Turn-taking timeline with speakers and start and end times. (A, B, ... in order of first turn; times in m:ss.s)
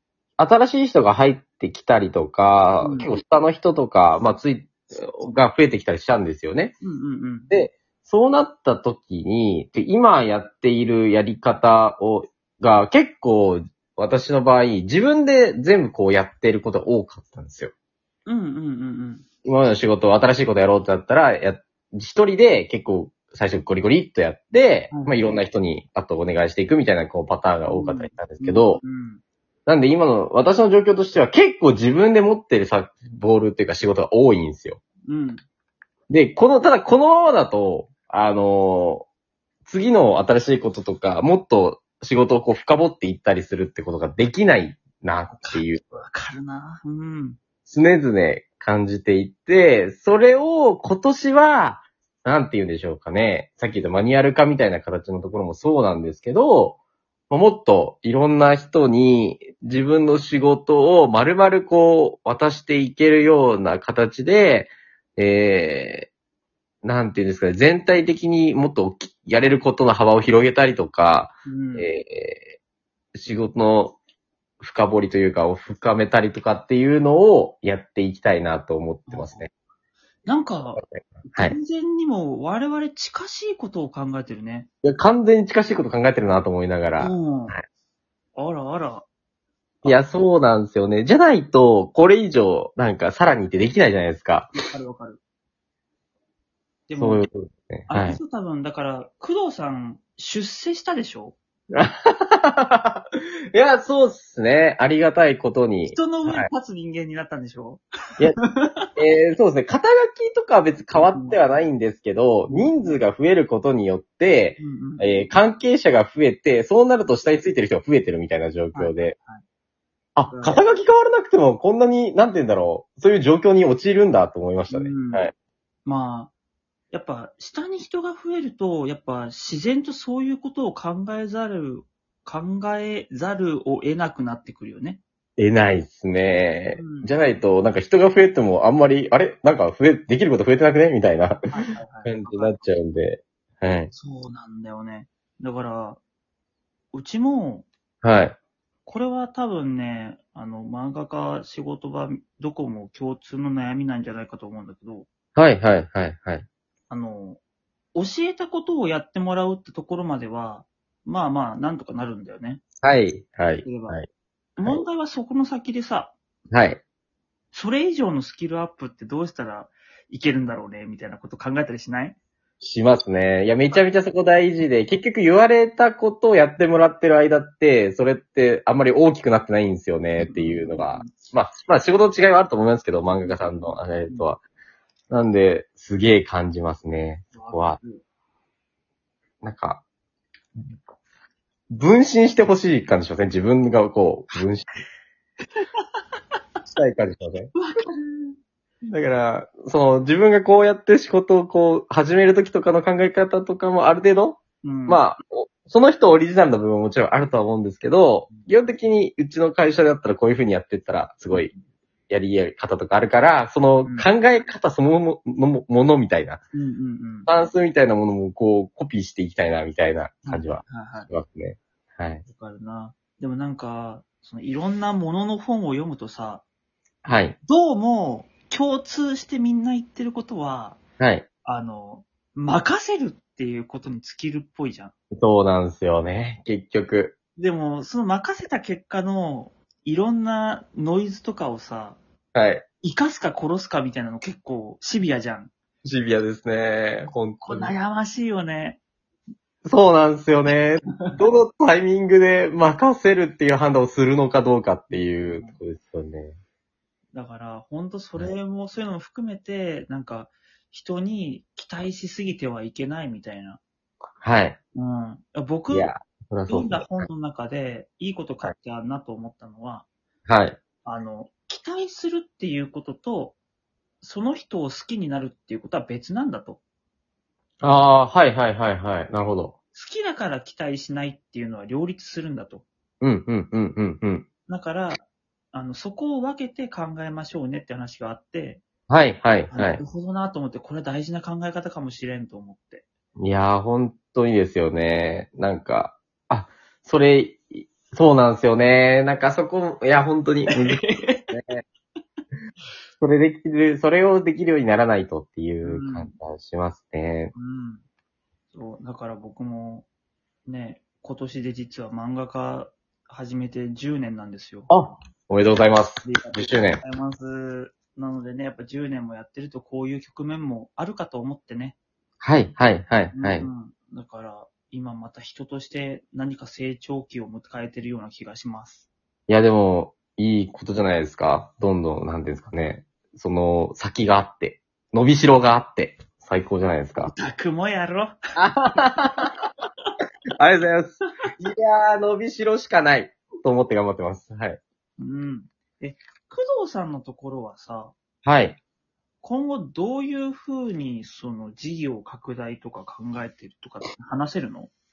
0:00.4-0:06.8 A
0:02.8-0:03.1 B
0:06.8-0:07.5 B
0:07.5-0:17.7 A
0:18.2-0:19.2 B
0:19.4-0:28.8 A
0:24.9-0:25.3 B
0:27.7-0:29.2 B
0:29.7-0:34.8 A
0:35.1-0:35.4 B
0:36.1-0:39.1 A
0:39.6-0:45.8 A
0:45.4-0:47.4 B
0:47.6-0:56.8 A
0:57.3-1:06.1 A
1:06.8-1:12.6 A
1:11.4-1:11.9 B
1:13.1-1:14.0 A
1:14.6-1:19.5 A
1:19.1-1:19.4 B
1:20.2-1:24.7 B
1:20.8-1:21.6 A
1:24.8-1:27.6 A
1:27.0-1:27.5 B
1:28.4-1:29.0 B
1:29.8-1:34.5 A
1:34.6-1:35.2 B
1:36.9-1:37.2 B
1:37.0-1:38.2 A
1:37.9-1:41.4 B
1:41.7-1:46.5 A
1:45.9-1:47.8 B
1:48.4-1:48.9 B
1:49.0-1:59.2 A
1:51.1-1:51.5 B
1:52.5-1:52.7 B
1:54.6-1:55.2 B
1:58.7-1:59.4 B
2:00.2-2:05.3 A
2:00.3-2:00.6 B
2:04.7-2:05.2 B
2:05.8-2:06.3 B
2:06.9-2:15.0 B
2:15.4-2:23.9 A
2:16.7-2:17.1 B
2:21.5-2:22.6 B
2:23.9-2:26.0 B
2:26.9-2:27.7 B
2:28.0-2:28.4 A
2:28.8-2:35.1 B
2:35.4-2:36.4 A
2:36.9-2:37.4 B
2:37.9-2:42.6 B
2:42.8-2:44.1 A
2:43.6-2:44.0 B
2:44.6-2:46.1 B
2:46.5-2:46.8 A
2:47.5-2:52.2 B
2:52.6-3:04.4 A
3:00.2-3:01.1 B
3:03.0-3:04.2 B
3:05.1-3:07.8 A
3:07.3-3:08.0 B
3:09.4-3:09.8 A
3:11.7-3:14.7 A
3:15.6-3:16.0 B
3:16.7-3:17.5 A
3:17.5-3:18.4 B
3:18.9-3:31.5 A
3:24.6-3:25.0 B
3:31.3-3:31.6 B
3:32.1-3:36.4 A
3:36.5-3:37.3 B
3:37.3-3:42.2 A
3:40.3-3:41.1 B
3:42.2-3:46.4 B
3:47.0-3:47.4 A
3:47.4-3:50.8 B
3:51.0-3:51.2 A
3:51.4-3:54.9 B
3:55.1-3:57.2 A
3:57.4-4:02.0 B
4:02.3-4:02.6 A
4:02.8-4:05.5 B
4:05.8-4:07.7 A
4:07.4-4:08.8 B
4:09.6-4:16.4 A
4:14.9-4:15.6 B
4:17.1-4:23.6 B
4:24.2-4:24.6 A
4:24.7-4:25.9 B
4:25.7-4:27.1 A
4:26.5-4:29.8 B
4:30.3-4:30.6 A
4:30.8-4:33.4 B
4:34.0-4:36.6 B
4:37.6-4:39.5 A
4:39.7-4:42.6 B
4:43.0-4:44.3 A
4:44.5-4:48.6 B
4:48.9-4:49.8 A
4:49.5-4:52.8 B
4:53.2-5:01.6 A
5:00.5-5:01.3 B
5:03.0-5:07.3 A
5:05.6-5:06.1 B
5:07.3-5:07.8 B
5:08.5-5:09.8 B
5:10.4-5:14.7 B
5:14.7-5:16.8 A
5:16.0-5:21.8 B
5:22.2-5:23.5 A
5:23.1-5:28.9 B
5:29.3-5:37.1 A
5:37.0-5:38.2 B
5:38.4-5:39.3 A
5:39.2-5:39.5 B
5:40.4-5:44.6 A
5:45.0-5:47.9 B
5:48.2-5:48.6 A
5:49.2-5:54.7 B